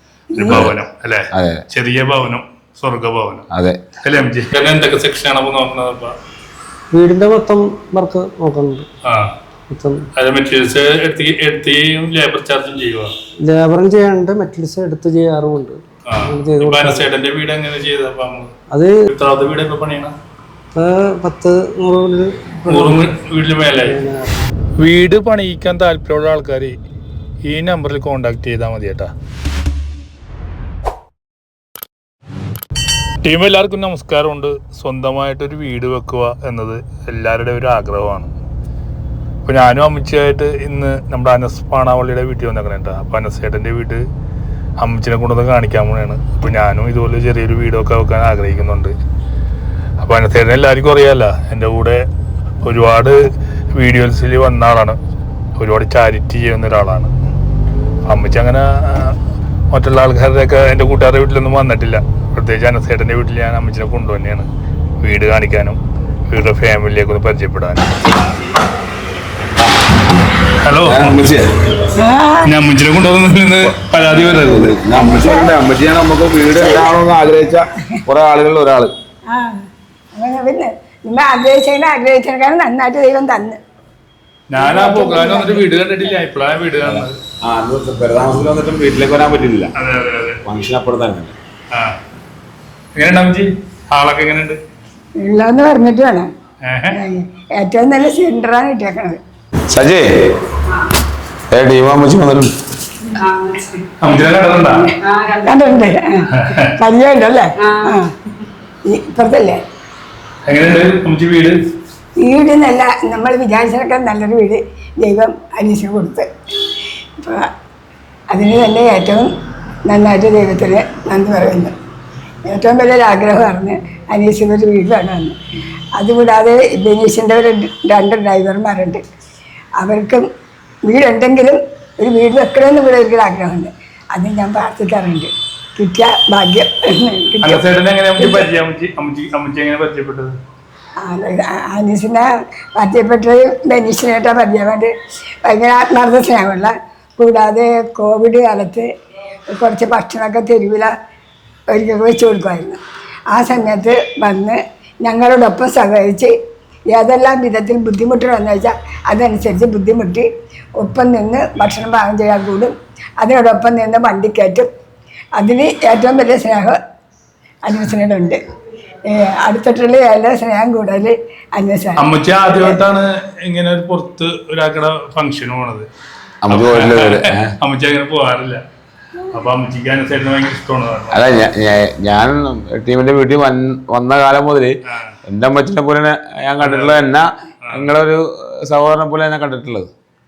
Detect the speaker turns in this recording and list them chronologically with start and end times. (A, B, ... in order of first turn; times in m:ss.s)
0:00.3-0:00.6 A
0:00.4-0:03.4 B
0:01.3-0:01.6 C
0:03.5-0:03.8 C
0:04.0-0:06.1 B
0:06.9-0:08.9 D
0:09.1-0:09.3 B
0:09.7-0:10.0 D
0:10.2-0:13.1 B
0:13.4-0:17.1 D
0:16.1-0:18.5 B
0:18.7-0:19.0 D
0:19.1-0:20.1 B
0:20.8-0:23.0 D
0:22.7-0:24.0 B
0:23.8-0:24.4 D
0:24.8-0:26.8 B
0:27.5-0:29.1 B
0:33.2-0:38.3 B
0:39.5-0:44.0 B
0:44.8-0:48.9 B
0:50.0-0:52.0 B
0:52.6-0:55.0 B
0:55.6-0:57.1 B
0:58.1-0:59.2 B
0:59.7-1:04.5 B
1:05.0-1:05.8 B
1:06.3-1:08.2 B
1:10.6-1:11.2 B
1:10.9-1:11.5 C
1:12.0-1:12.5 A
1:12.4-1:14.7 B
1:14.2-1:18.9 C
1:14.9-1:15.5 A
1:19.3-1:19.6 A
1:20.2-1:23.6 A
1:24.5-1:27.2 B
1:24.6-1:26.2 A
1:26.8-1:29.7 C
1:29.8-1:30.4 B
1:30.4-1:31.3 C
1:33.0-1:34.6 B
1:35.2-1:36.3 A
1:36.6-1:37.0 B
1:36.9-1:39.2 A
1:39.7-1:40.1 C
1:41.5-1:42.5 C
1:44.0-1:44.9 B
1:45.1-1:48.1 A
1:46.4-1:46.7 B
1:48.9-1:49.6 A
1:50.5-1:51.6 B
1:52.2-1:56.3 A
1:57.2-1:57.5 A
1:58.3-1:59.3 A
1:59.9-2:01.7 A
2:02.5-2:05.4 A
2:06.0-2:09.0 A
2:09.8-2:10.2 A
2:10.9-2:17.6 A
2:17.4-2:20.4 B
2:18.2-2:18.5 A
2:21.0-2:24.9 A
2:25.5-2:28.9 A
2:29.5-2:30.9 A
2:31.7-2:32.8 A
2:33.3-2:36.3 A
2:36.9-2:40.3 A
2:40.8-2:44.7 A
2:45.4-2:46.8 A
2:47.6-2:48.4 A
2:49.1-2:52.8 A
2:52.0-2:55.9 B
2:56.4-2:57.6 C
2:56.5-2:58.6 B
2:59.3-3:01.2 B
3:01.1-3:09.9 C
3:04.9-3:05.2 B
3:06.6-3:07.0 B